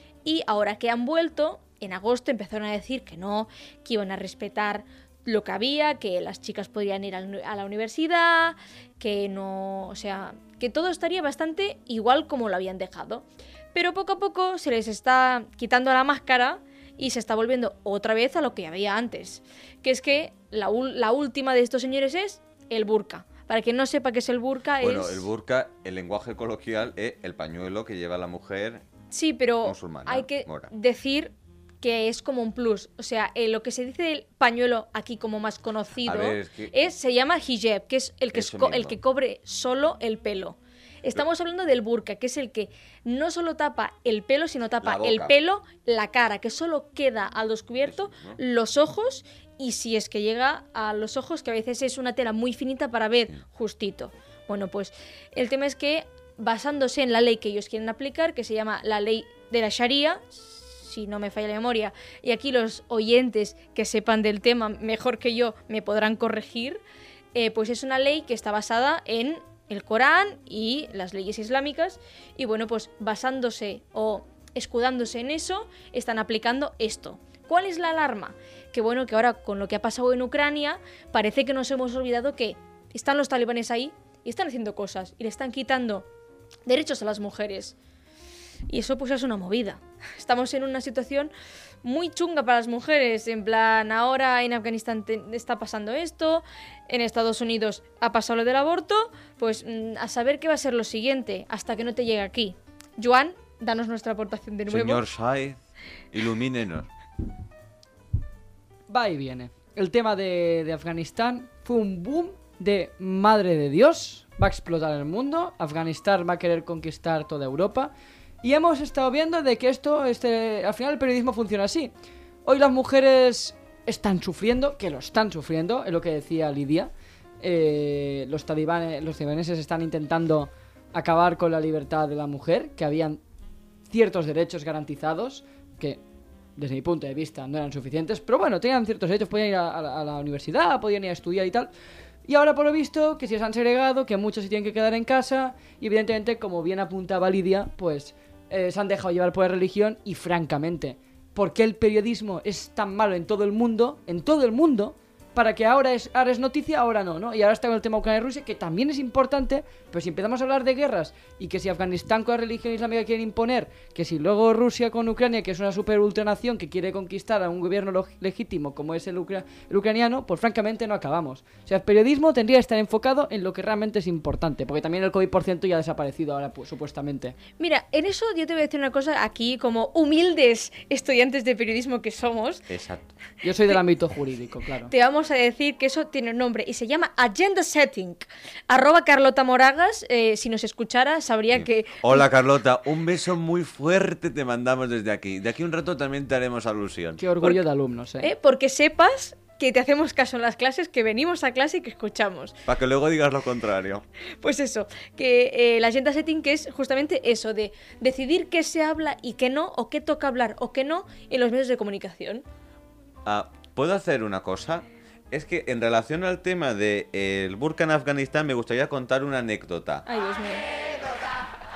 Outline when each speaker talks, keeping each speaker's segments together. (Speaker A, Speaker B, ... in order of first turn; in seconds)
Speaker A: 0.2-25.3, 29.1-66.8, 67.3-86.1, 86.7-87.8, 88.7-91.3, 91.8-105.0, 177.6-182.7, 184.9-192.3, 198.2-202.6, 204.4-212.4, 220.1-220.7
Speaker B: 24.8-28.8, 29.6-30.7, 36.0-36.7, 38.3-39.0, 44.8-45.4, 47.9-48.4, 104.7-106.9, 182.7-183.1, 191.5-197.2, 202.7-204.1, 213.2-220.1
Speaker C: 108.9-117.9, 118.4-121.9, 122.5-133.2, 133.9-136.0, 136.6-141.7, 142.3-177.3, 183.4-184.9, 197.2-198.3